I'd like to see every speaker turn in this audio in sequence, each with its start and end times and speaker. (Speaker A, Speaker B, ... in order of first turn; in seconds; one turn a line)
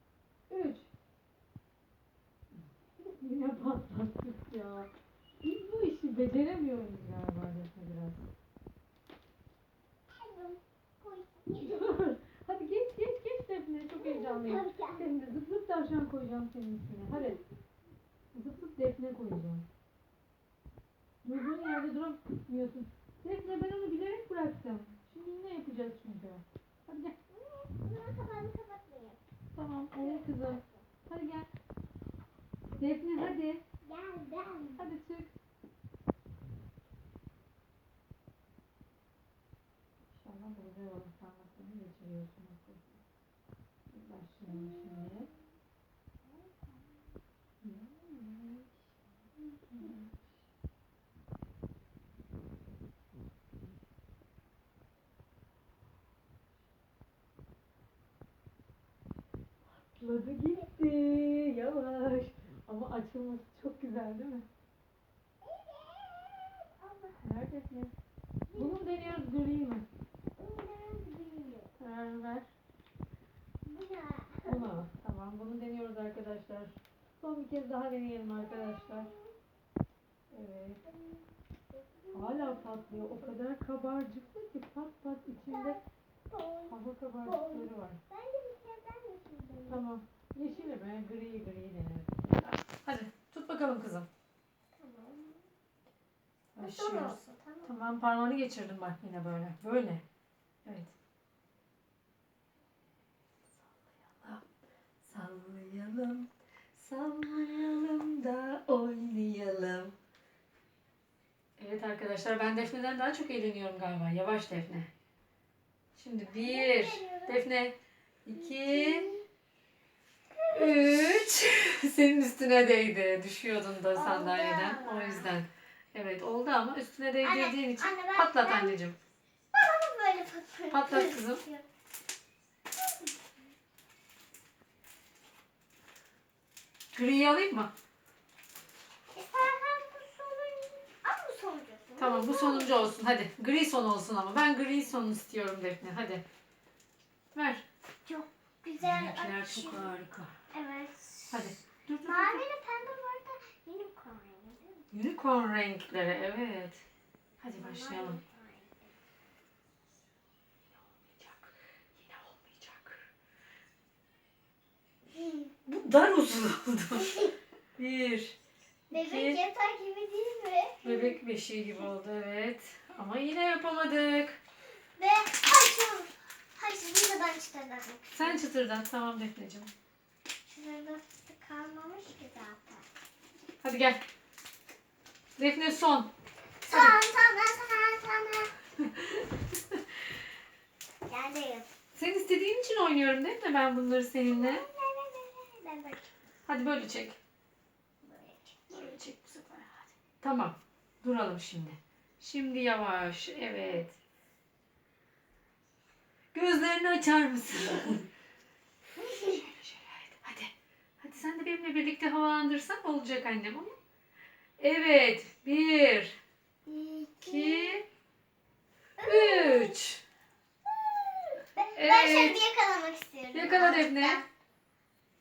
Speaker A: 0.5-0.9
Speaker A: 3.1-4.9
Speaker A: 5.4-8.3
Speaker B: 10.1-11.9
Speaker A: 11.6-17.4
Speaker B: 13.9-15.1
Speaker B: 17.1-17.4
Speaker A: 18.3-19.6
Speaker A: 21.2-27.1
Speaker B: 21.3-21.9
Speaker B: 27.3-29.2
Speaker A: 29.5-31.5
Speaker B: 29.9-30.9
Speaker A: 32.8-33.6
Speaker B: 33.8-34.8
Speaker A: 34.8-35.3
Speaker A: 40.2-43.0
Speaker A: 43.9-45.3
Speaker B: 44.5-45.4
Speaker B: 46.3-46.8
Speaker A: 47.6-48.7
Speaker A: 49.5-50.2
Speaker A: 59.9-64.5
Speaker B: 65.4-67.2
Speaker A: 67.2-67.9
Speaker B: 68.5-69.2
Speaker A: 68.5-69.9
Speaker B: 70.3-71.7
Speaker A: 71.8-72.4
Speaker B: 73.6-74.7
Speaker A: 74.4-79.1
Speaker B: 78.4-79.3
Speaker A: 80.3-80.8
Speaker B: 80.8-83.3
Speaker A: 82.1-85.8
Speaker B: 85.5-89.9
Speaker A: 86.7-88.0
Speaker A: 89.7-94.1
Speaker B: 94.8-95.5
Speaker A: 96.5-100.0
Speaker B: 96.6-97.7
Speaker A: 100.6-100.9
Speaker A: 104.0-104.4
Speaker A: 105.0-109.9
Speaker A: 111.6-114.9
Speaker A: 115.9-119.1
Speaker B: 116.3-117.4
Speaker B: 118.3-119.2
Speaker B: 120.3-121.2
Speaker A: 120.5-129.0
Speaker B: 123.9-125.3
Speaker B: 127.2-128.8
Speaker B: 129.5-131.6
Speaker A: 130.7-131.4
Speaker B: 132.8-133.3
Speaker A: 136.9-137.7
Speaker B: 139.1-142.9
Speaker A: 142.0-146.2
Speaker A: 147.3-147.6
Speaker B: 148.1-149.9
Speaker A: 148.8-150.3
Speaker B: 150.5-154.8
Speaker A: 151.3-152.4
Speaker A: 154.9-156.8
Speaker A: 157.4-158.2
Speaker B: 157.6-158.9
Speaker A: 160.7-163.1
Speaker B: 165.2-165.5
Speaker A: 165.7-168.3
Speaker A: 168.9-169.4
Speaker B: 168.9-171.2
Speaker A: 170.8-174.4
Speaker B: 175.0-178.4
Speaker A: 178.1-179.7
Speaker B: 180.4-182.8
Speaker A: 183.6-184.0
Speaker A: 185.4-186.1
Speaker B: 186.6-188.5
Speaker A: 186.7-187.0
Speaker A: 188.8-189.8
Speaker B: 191.1-191.7
Speaker A: 191.9-194.6
Speaker B: 194.2-196.1
Speaker A: 196.5-197.2
Speaker B: 198.0-199.0
Speaker A: 198.7-203.9
Speaker A: 206.3-208.1
Speaker A: 209.0-213.8
Speaker A: 214.6-216.1
Speaker B: 216.7-217.8
Speaker A: 217.2-217.8
Speaker B: 219.0-219.8
Speaker A: 219.0-220.0
Speaker B: 220.7-224.2
Speaker A: 221.7-222.4
Speaker A: 223.3-224.2